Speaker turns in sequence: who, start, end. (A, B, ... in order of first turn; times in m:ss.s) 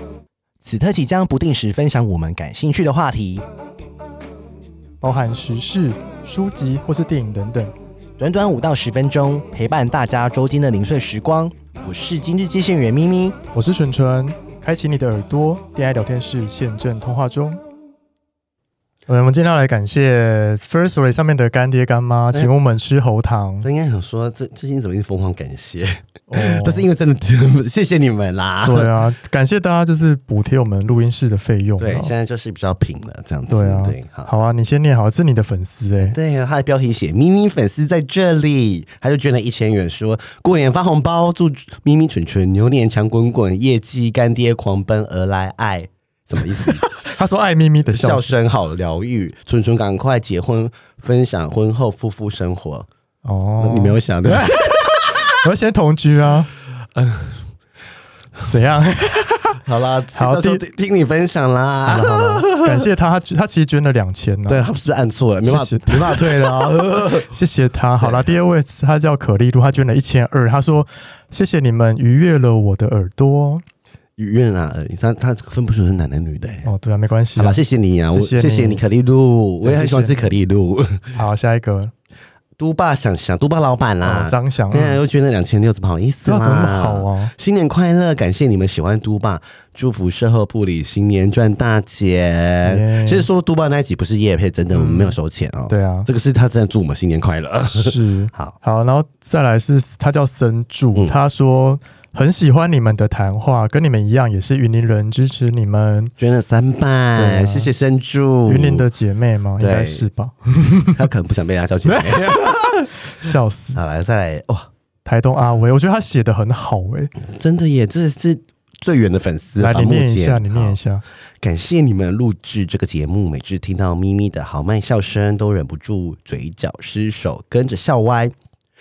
0:00.6-0:03.4 A
0:05.0-0:07.7 B
0:08.2-0:13.3 A
0:13.5-0:17.6 B
0:19.1-0:23.7 B
0:23.6-0:29.0 C
0:26.3-0:26.9 B
0:28.6-0:32.1 B
0:31.8-0:34.3 C
0:33.5-0:36.2 B
0:36.0-0:46.9 C
0:46.6-0:48.4 B
0:47.9-0:52.9 C
0:53.2-0:56.5 B
0:53.6-0:55.2 C
0:56.9-0:57.4 C
0:58.5-0:59.6 B
0:59.6-1:02.8 C
1:00.1-1:00.6 B
1:01.8-1:04.6 B
1:04.5-1:07.3 C
1:05.4-1:06.6 B
1:07.3-1:13.6 B
1:08.0-1:08.4 C
1:14.2-1:16.7 C
1:16.6-1:18.8 B
1:17.4-1:21.2 C
1:19.6-1:20.4 B
1:21.2-1:21.9 B
1:22.6-1:38.6 C
1:24.0-1:25.0 B
1:26.2-1:27.3 B
1:32.6-1:33.3 B
1:34.7-1:35.2 B
1:35.7-1:36.1 B
1:37.7-1:46.1 B
1:46.2-1:48.9 C
1:47.1-1:47.7 B
1:48.5-1:51.0 B
1:49.6-1:50.1 C
1:50.9-1:52.7 C
1:51.9-1:53.8 B
1:53.7-1:54.7 C
1:55.0-1:57.1 B
1:57.2-2:00.8 C
1:59.6-2:01.0 B
2:01.4-2:08.3 C